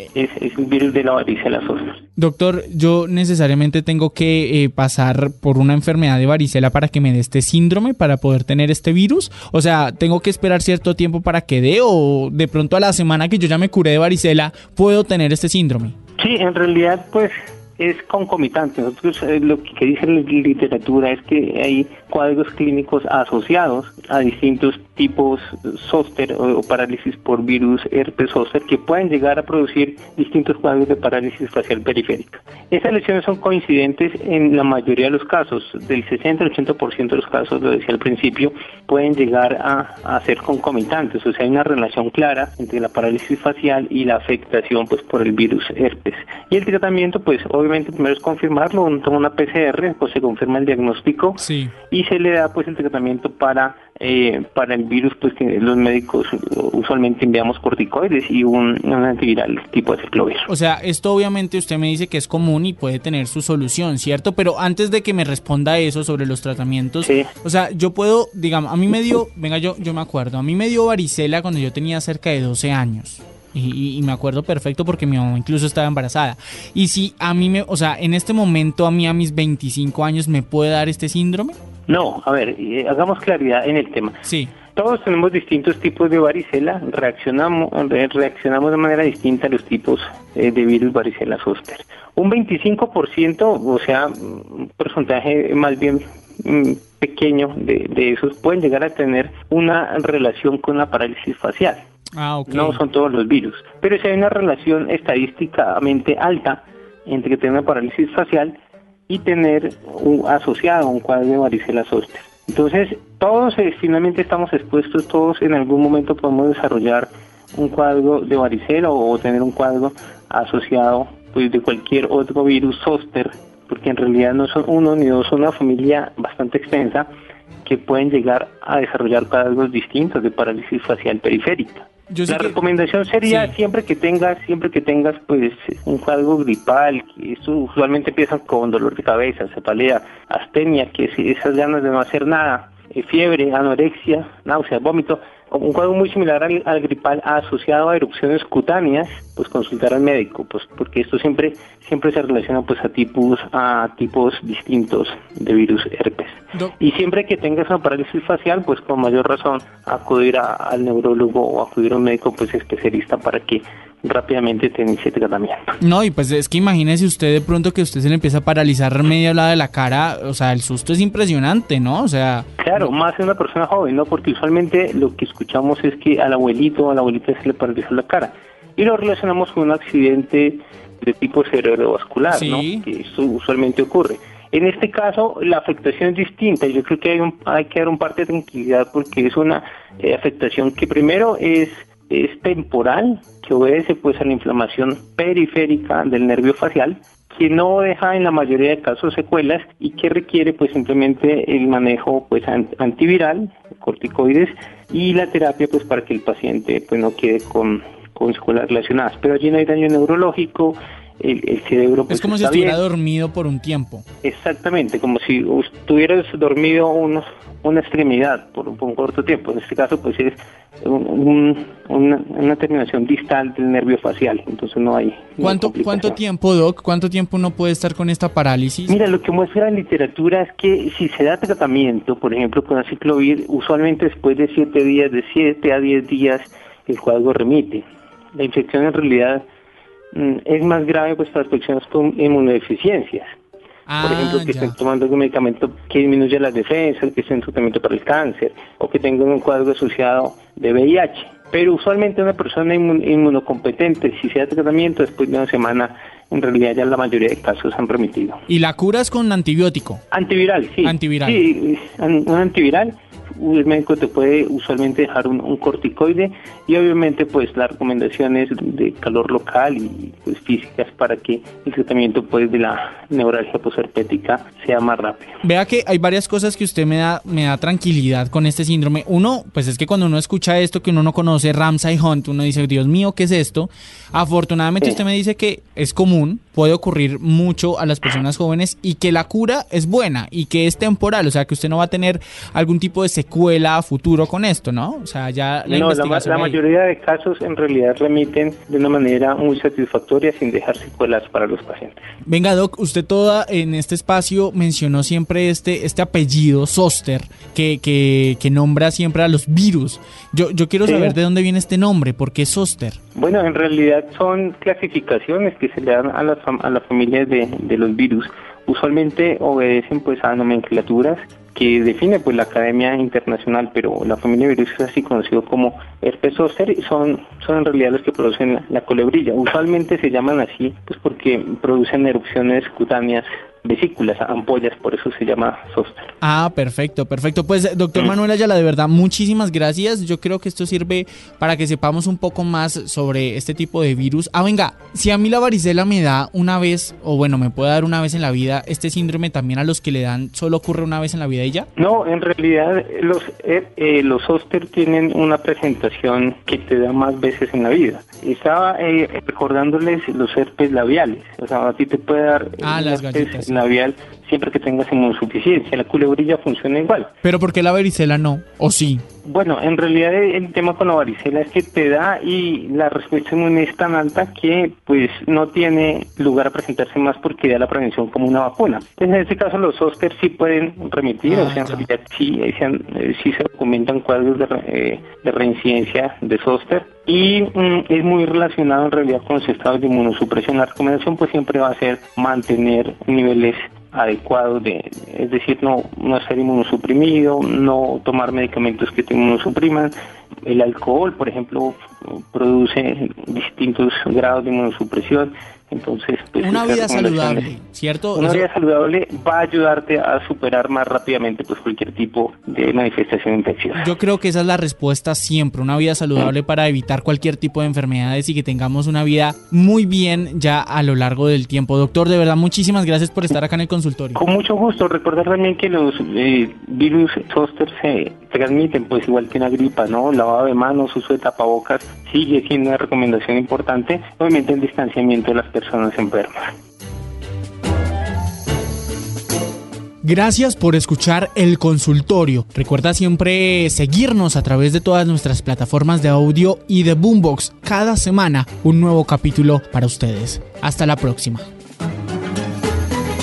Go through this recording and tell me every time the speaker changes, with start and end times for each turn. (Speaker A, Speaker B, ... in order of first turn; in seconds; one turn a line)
Speaker A: 0.1-2.0
Speaker B: 2.2-15.9
Speaker A: 16.2-60.5
Speaker B: 51.4-51.7
Speaker B: 60.5-81.5
Speaker A: 67.0-67.3
Speaker A: 81.9-84.2
Speaker B: 84.2-84.5
Speaker A: 84.7-101.8
Speaker B: 102.1-102.8
Speaker A: 102.5-108.5
Speaker A: 109.1-127.1
Speaker A: 127.6-165.8
Speaker B: 132.1-132.6
Speaker B: 133.2-133.5
Speaker B: 165.8-172.9
Speaker A: 172.6-212.8
Speaker B: 182.3-182.8
Speaker B: 212.1-214.0
Speaker A: 214.2-226.2
Speaker B: 225.4-229.0
Speaker A: 228.9-237.8
Speaker A: 238.3-239.4
Speaker A: 240.1-243.3
Speaker B: 243.9-244.8
Speaker A: 244.0-258.4
Speaker B: 258.5-260.0
Speaker A: 260.1-275.4
Speaker B: 260.8-261.4
Speaker B: 275.4-296.6
Speaker A: 295.6-302.0
Speaker B: 302.3-313.0
Speaker A: 310.9-311.2
Speaker A: 313.1-336.1
Speaker B: 336.2-351.7
Speaker A: 351.8-367.1
Speaker B: 362.6-363.6
Speaker B: 367.2-369.0
Speaker A: 369.2-399.9
Speaker B: 381.2-381.9
Speaker A: 400.4-407.5
Speaker B: 406.4-408.4
Speaker A: 408.1-413.9
Speaker B: 413.7-424.2
Speaker A: 424.1-436.5
Speaker B: 440.0-451.4